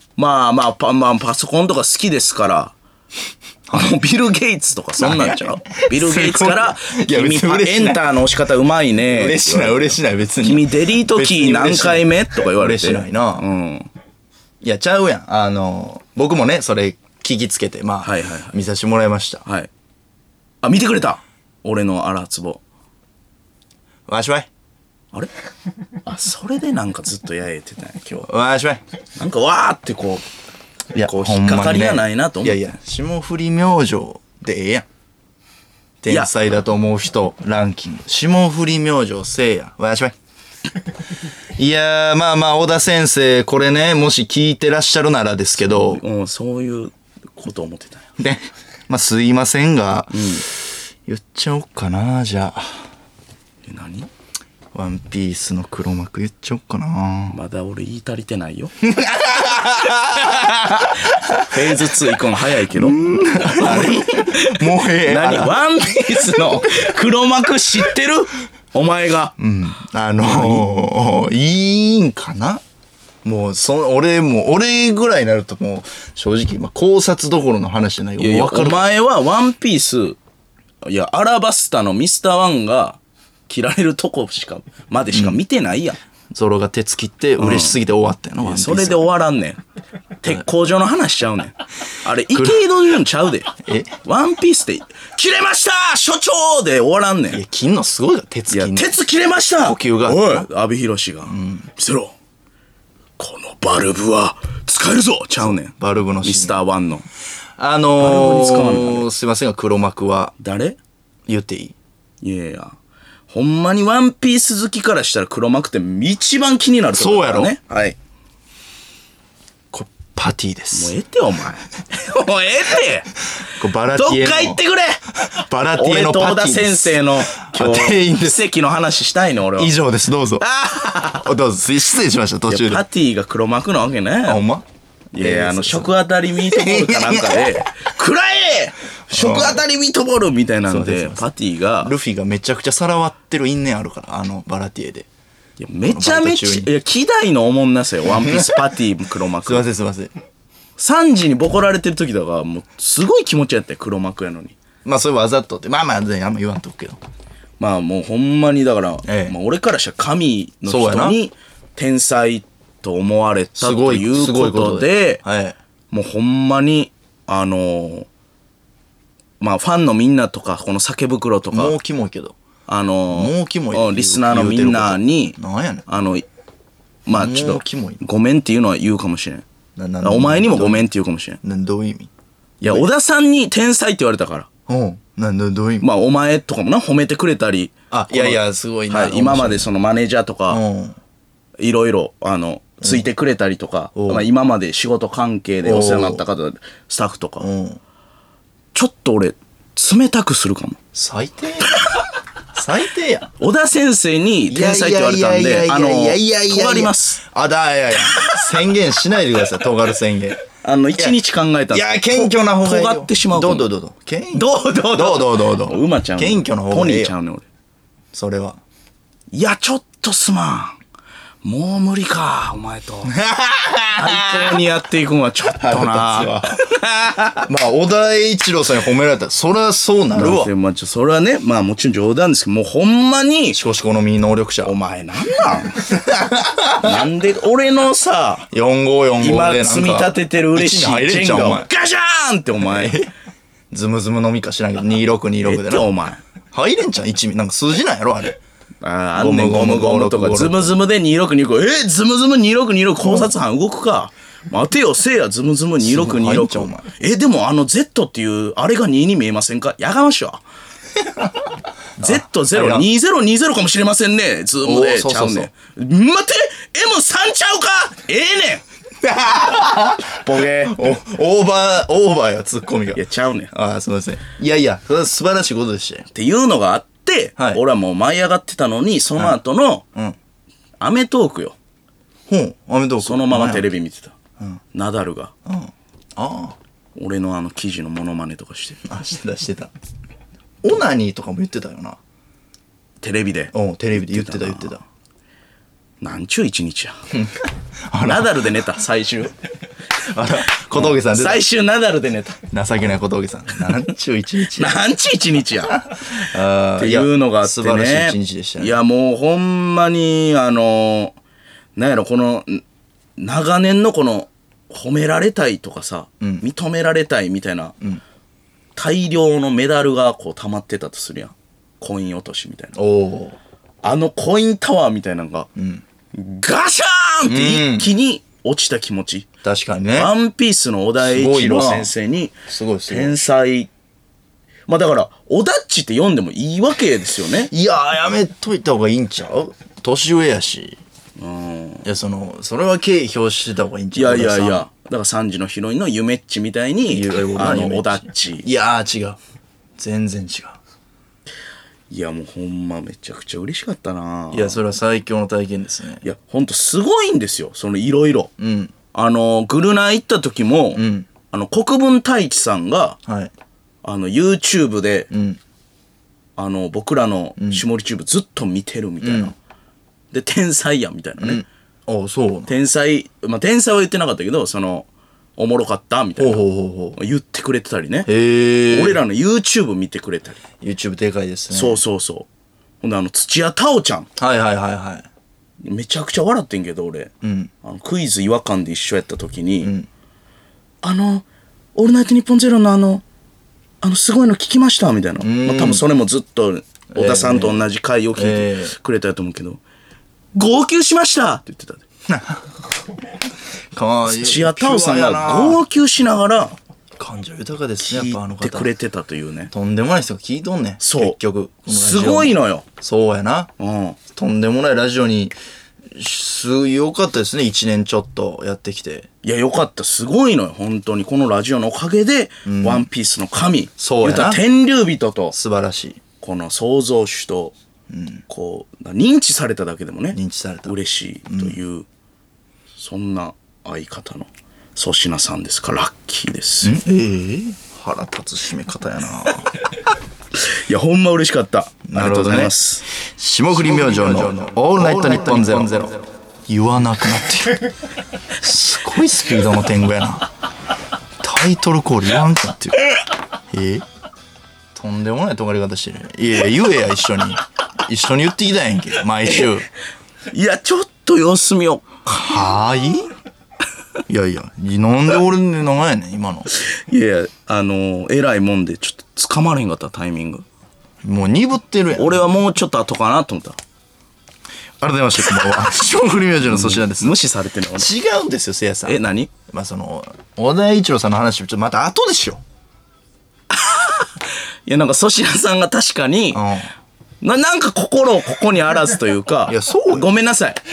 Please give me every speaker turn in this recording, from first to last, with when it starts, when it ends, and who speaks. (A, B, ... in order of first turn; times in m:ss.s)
0:00.2-0:02.7 A
0:03.7-0:13.9 A
0:05.0-0:08.1 B
0:09.0-0:13.4 B
0:14.6-0:19.4 B
0:18.0-0:18.6 A
0:19.4-0:19.7 A
0:20.6-0:22.6 A
0:24.1-0:24.5 B
0:26.0-0:28.3 A
0:28.2-0:28.8 B
0:29.2-0:30.2 A
0:30.9-0:34.9 B
0:31.0-0:32.6 A
0:36.0-0:40.2 B
0:41.6-0:46.0 B
0:45.6-0:48.0 A
0:48.2-0:52.9 B
0:50.1-0:50.4 A
0:53.7-0:54.1 A
0:54.7-0:57.4 B
0:57.3-0:58.7 A
0:58.8-1:01.6 B
1:00.2-1:09.4 A
1:02.7-1:06.7 B
1:09.4-1:12.6 B
1:10.2-1:10.6 A
1:13.2-1:18.9 B
1:18.2-1:20.2 A
1:20.8-1:26.0 A
1:25.1-1:25.4 B
1:26.3-1:29.1 B
1:27.4-1:27.8 A
1:28.4-1:29.6 A
1:30.2-1:37.4 A
1:32.4-1:32.6 B
1:33.6-1:33.9 B
1:37.3-1:39.0 B
1:38.5-1:42.1 A
1:39.6-1:40.5 B
1:41.3-1:41.7 B
1:43.2-1:47.0 A
1:45.4-1:46.6 B
1:47.6-1:50.3 B
1:48.0-1:49.1 A
1:50.4-1:50.8 A
1:51.3-1:51.7 B
1:52.2-1:52.8 A
1:53.3-1:58.0 A
1:57.0-1:57.5 B
1:59.7-2:01.0 B
2:00.7-2:03.1 A
2:03.6-2:04.6 B
2:03.9-2:05.0 A
2:05.3-2:08.4 B
2:05.7-2:09.8 A
2:09.6-2:10.4 B
2:10.4-2:11.3 A
2:11.1-2:12.8 B
2:12.5-2:14.4 A
2:14.3-2:14.6 B
2:15.1-2:21.9 A
2:15.2-2:17.6 B
2:19.1-2:19.6 B
2:20.7-2:21.3 B
2:21.8-2:25.1 B
2:25.6-2:29.7 A
2:25.8-2:26.7 B
2:28.1-2:28.7 B
2:29.4-2:30.1 B
2:30.8-2:34.6 A
2:34.8-2:37.0 B
2:37.6-2:45.2 A
2:39.0-2:39.4 B
2:40.7-2:41.2 B
2:43.6-2:45.6 B
2:45.9-2:48.1 A
2:49.4-2:51.8 A
2:51.5-2:52.4 B
2:52.7-2:56.2 A
2:53.1-2:55.8 B
2:57.1-2:59.4 A
2:57.2-2:58.0 B
2:59.8-3:00.9 B
3:00.0-3:01.4 A
3:01.4-3:02.1 B
3:02.6-3:02.9 B
3:02.6-3:04.5 A
3:04.7-3:05.9 B
3:05.8-3:10.6 A
3:07.9-3:09.7 B
3:10.5-3:11.0 B
3:11.6-3:17.5 A
3:12.8-3:13.1 B
3:14.0-3:14.2 B
3:15.6-3:16.2 B
3:17.4-3:17.8 B
3:18.7-3:20.8 A
3:20.9-3:21.8 B
3:22.5-3:23.3 B
3:23.4-3:27.2 A
3:24.5-3:30.4 B
3:30.6-3:33.7 A
3:31.7-3:37.1 B
3:34.3-3:37.4 A
3:38.1-3:38.6 B
3:39.3-3:40.8 A
3:41.4-3:43.2 A
3:43.1-3:44.6 B
3:44.0-3:47.5 A
3:45.6-3:46.6 B
3:47.5-3:50.5 B
3:50.1-3:53.6 A
3:53.5-3:54.8 B
3:54.6-3:55.9 A
3:55.8-3:57.0 B
3:56.8-3:58.5 A
3:58.5-4:01.7 B
3:59.2-4:03.0 A
4:02.6-4:03.1 B
4:03.7-4:05.9 B
4:05.4-4:06.2 A
4:06.5-4:08.4 B
4:08.8-4:20.4 A
4:09.2-4:10.8 B
4:13.0-4:13.3 B
4:15.8-4:16.8 B
4:21.0-4:22.9 B
4:22.0-4:28.6 A
4:24.6-4:25.5 B
4:29.0-4:36.1 B
4:30.2-4:30.8 A
4:32.9-4:33.5 A
4:36.1-4:39.8 A
4:40.8-4:41.6 A
4:42.3-4:43.7 B
4:43.0-4:44.2 A
4:44.7-4:45.3 A
4:45.4-4:46.6 B
4:47.0-4:48.8 A
4:48.8-4:49.7 B
4:50.6-4:52.0 B
4:53.0-4:54.8 A
4:53.5-4:54.8 B
4:56.0-4:57.0 A
4:57.1-4:58.6 B
4:58.0-4:59.4 A
5:00.0-5:01.4 B
5:00.7-5:02.4 A
5:02.5-5:04.8 B
5:04.6-5:05.8 A
5:05.7-5:08.8 B
5:06.8-5:11.2 A
5:11.8-5:12.6 A
5:13.2-5:17.8 A
5:16.2-5:16.4 B
5:18.8-5:22.8 A
5:22.8-5:23.4 B
5:23.8-5:25.5 A
5:25.6-5:25.8 B
5:26.1-5:29.3 A
5:27.3-5:27.9 B
5:29.4-5:30.1 B
5:29.9-5:33.7 A
5:31.0-5:31.9 B
5:32.5-5:33.2 B
5:34.7-5:37.5 A
5:37.5-5:40.8 B
5:41.2-5:41.9 A
5:41.8-5:44.7 B
5:44.0-5:48.5 A
5:46.9-5:49.2 B
5:49.8-5:50.6 B
5:51.9-5:54.6 A
5:54.3-5:56.0 B
5:56.0-5:58.3 A
5:58.4-5:58.7 B
5:58.9-6:03.0 A
6:00.8-6:01.1 B
6:03.1-6:03.3 B
6:03.8-6:05.1 A
6:05.1-6:05.4 B
6:06.4-6:09.4 A
6:07.4-6:07.6 B
6:09.0-6:09.3 B
6:10.1-6:11.4 A
6:11.2-6:12.5 B
6:12.5-6:16.4 A
6:16.2-6:17.0 B
6:17.0-6:18.1 A
6:18.1-6:19.0 B
6:18.7-6:20.4 A
6:20.6-6:21.8 B
6:21.5-6:22.3 A
6:22.8-6:24.1 A
6:24.2-6:25.1 B
6:25.6-6:27.1 A
6:27.2-6:27.5 B
6:27.6-6:29.7 A
6:29.6-6:29.9 B
6:30.8-6:33.0 A
6:33.8-6:39.6 A
6:35.2-6:35.8 B
6:36.9-6:37.6 B
6:38.2-6:38.7 B
6:40.3-6:41.8 A
6:42.1-6:42.4 B
6:43.7-6:45.6 B
6:44.1-6:46.6 A
6:47.0-6:48.7 B
6:47.8-6:49.5 A
6:49.5-6:53.5 B
6:50.8-6:52.6 A
6:53.6-6:54.0 A
6:54.1-6:55.4 B
6:55.9-6:59.1 B
6:59.2-7:05.4 A
7:02.5-7:02.9 B
7:03.8-7:04.4 B
7:05.3-7:06.0 B
7:06.2-7:07.5 A
7:07.9-7:08.2 B
7:08.3-7:11.9 A
7:10.1-7:10.8 B
7:11.3-7:11.6 B
7:12.8-7:16.8 A
7:16.6-7:19.6 B
7:20.4-7:22.8 A
7:21.9-7:22.5 B
7:23.1-7:26.0 B
7:23.5-7:26.0 A
7:26.5-7:27.7 B
7:28.4-7:30.3 B
7:31.2-7:32.8 B
7:33.5-7:33.8 B
7:34.8-7:39.7 B
7:40.3-7:41.9 A
7:42.1-7:43.1 B
7:44.1-7:46.5 B
7:46.6-7:50.4 A
7:51.0-7:52.3 B
7:52.0-7:53.6 A
7:54.8-7:57.2 B
7:56.5-7:57.9 A
7:57.8-8:02.4 B
7:58.9-7:59.3 A
8:03.5-8:06.5 A
8:06.3-8:06.7 B
8:07.2-8:10.6 A
8:09.5-8:10.1 B